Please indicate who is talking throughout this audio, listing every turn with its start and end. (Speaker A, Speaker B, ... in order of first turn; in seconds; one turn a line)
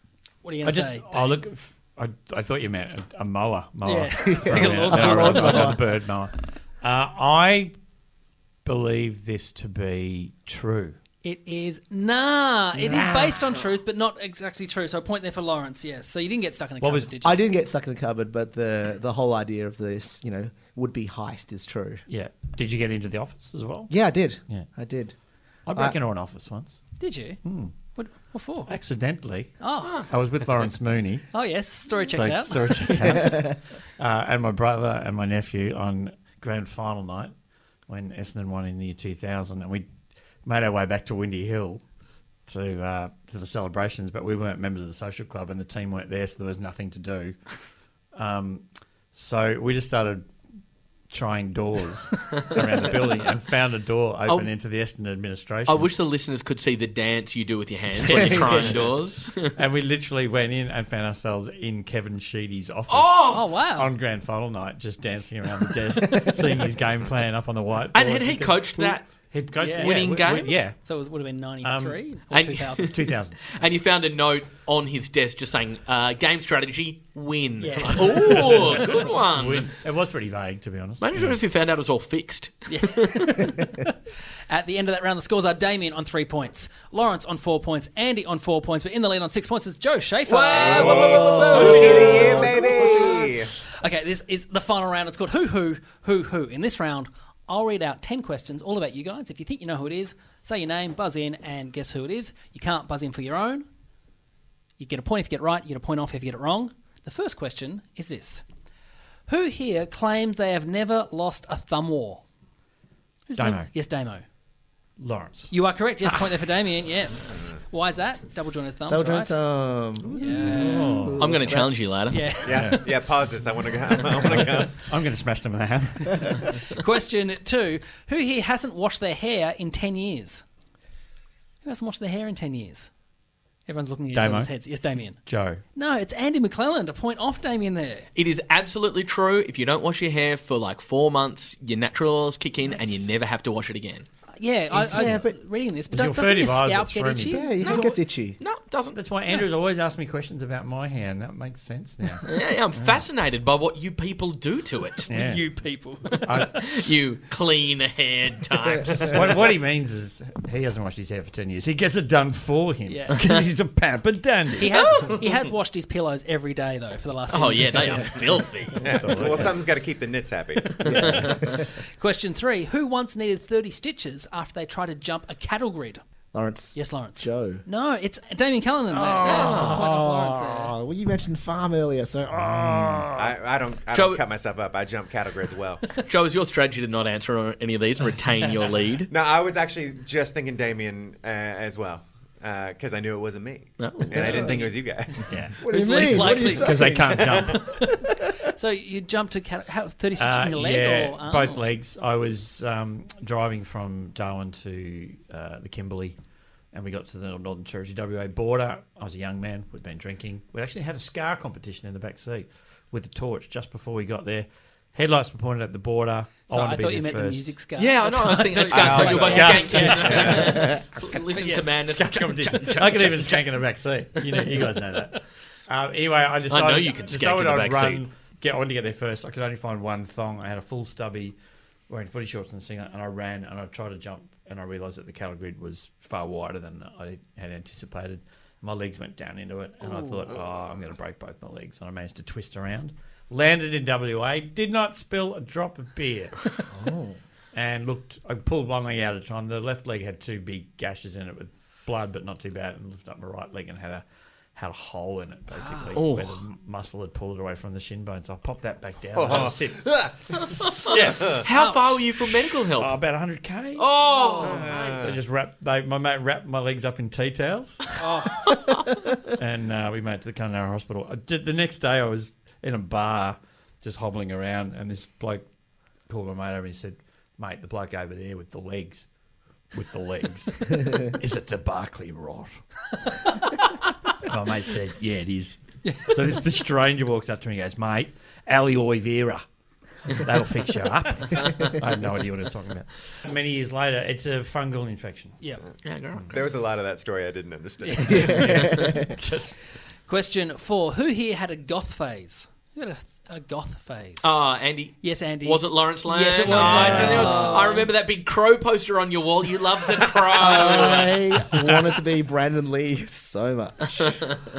Speaker A: 0.4-1.3
Speaker B: 0.6-7.7
Speaker A: 3.8-5.8
Speaker C: 4.2-5.8
Speaker B: 8.6-10.9
Speaker A: 11.2-17.4
Speaker C: 12.8-13.3
Speaker B: 16.8-17.1
Speaker C: 17.2-22.0
Speaker B: 22.1-23.9
Speaker C: 23.9-25.1
Speaker B: 25.7-26.8
Speaker A: 27.0-27.4
Speaker B: 27.4-27.7
Speaker A: 27.9-28.7
Speaker B: 28.7-31.2
Speaker A: 29.6-30.0
Speaker A: 31.3-33.0
Speaker B: 32.1-37.3
Speaker C: 33.0-33.5
Speaker B: 37.9-39.9
Speaker B: 40.4-41.8
Speaker B: 42.5-47.4
Speaker B: 48.1-50.3
Speaker B: 51.1-55.9
Speaker D: 52.3-52.6
Speaker D: 55.7-59.5
Speaker B: 58.0-58.9
Speaker C: 58.1-58.9
Speaker B: 59.5-70.8
Speaker D: 62.9-63.5
Speaker A: 63.3-63.9
Speaker D: 67.9-69.1
Speaker A: 69.6-73.0
Speaker D: 69.7-70.5
Speaker B: 71.6-72.0
Speaker D: 72.3-79.8
Speaker B: 72.8-73.4
Speaker A: 77.6-78.8
Speaker B: 78.0-81.4
Speaker D: 81.0-83.4
Speaker A: 82.7-83.7
Speaker A: 84.5-91.0
Speaker D: 90.3-92.4
Speaker E: 90.6-93.5
Speaker C: 90.6-93.4
Speaker A: 93.8-103.7
Speaker A: 104.8-108.4
Speaker A: 109.3-112.2
Speaker A: 113.3-114.2
Speaker B: 113.3-113.7
Speaker B: 115.0-115.5
Speaker A: 115.5-119.4
Speaker C: 118.9-121.8
Speaker A: 120.2-121.1
Speaker B: 120.4-121.3
Speaker D: 121.2-122.2
Speaker A: 122.1-122.8
Speaker E: 122.5-124.8
Speaker B: 122.5-122.9
Speaker B: 124.2-126.6
Speaker A: 126.5-130.4
Speaker A: 131.6-132.9
Speaker A: 133.7-135.2
Speaker B: 134.1-134.5
Speaker B: 135.2-135.6
Speaker A: 135.7-138.1
Speaker D: 138.2-144.1
Speaker A: 144.3-147.7
Speaker B: 144.8-145.2
Speaker C: 144.8-145.3
Speaker B: 145.9-147.5
Speaker C: 147.3-148.4
Speaker D: 147.6-149.0
Speaker B: 148.9-152.2
Speaker D: 152.2-155.1
Speaker B: 155.1-155.5
Speaker A: 155.1-156.6
Speaker D: 156.1-159.2
Speaker B: 156.2-156.7
Speaker B: 159.1-164.9
Speaker A: 162.9-163.3
Speaker A: 164.6-168.3
Speaker D: 164.7-165.2
Speaker D: 167.3-168.8
Speaker E: 168.8-171.2
Speaker B: 168.9-169.6
Speaker C: 170.8-171.7
Speaker A: 172.0-176.0
Speaker C: 176.3-177.6
Speaker A: 176.7-180.7
Speaker C: 178.9-183.1
Speaker D: 179.2-179.8
Speaker B: 182.4-183.2
Speaker E: 183.2-185.9
Speaker D: 183.9-184.2
Speaker D: 186.0-189.1
Speaker E: 189.1-195.3
Speaker D: 193.8-194.5
Speaker C: 194.2-194.5
Speaker B: 195.3-197.6
Speaker C: 195.6-197.4
Speaker A: 195.6-201.6
Speaker E: 197.1-197.5
Speaker B: 200.2-206.2
Speaker B: 206.7-217.5
Speaker A: 216.5-220.7
Speaker D: 217.8-223.5
Speaker E: 218.7-220.3
Speaker B: 219.1-220.7
Speaker A: 221.3-221.7
Speaker B: 221.8-231.3
Speaker D: 224.2-224.5
Speaker D: 226.5-228.0
Speaker B: 231.9-246.4
Speaker C: 246.7-247.2
Speaker B: 247.5-254.0
Speaker B: 254.5-261.4
Speaker D: 255.9-256.4
Speaker E: 259.1-260.1
Speaker D: 260.9-263.0
Speaker A: 261.5-262.0
Speaker B: 262.7-268.0
Speaker D: 263.8-265.1
Speaker A: 264.1-264.6
Speaker E: 264.4-265.2
Speaker A: 268.0-268.5
Speaker B: 269.3-275.4
Speaker B: 276.1-279.1
Speaker B: 279.7-282.5
Speaker B: 284.1-289.4
Speaker A: 285.8-286.2
Speaker B: 290.1-295.4
Speaker D: 295.8-296.3
Speaker E: 296.3-298.6
Speaker A: 297.8-298.6
Speaker C: 298.0-299.1
Speaker B: 299.1-299.5
Speaker A: 300.1-304.3
Speaker D: 304.2-311.4
Speaker A: 305.0-307.9
Speaker B: 306.5-307.5
Speaker C: 306.8-307.9
Speaker C: 310.3-314.3
Speaker D: 314.0-314.3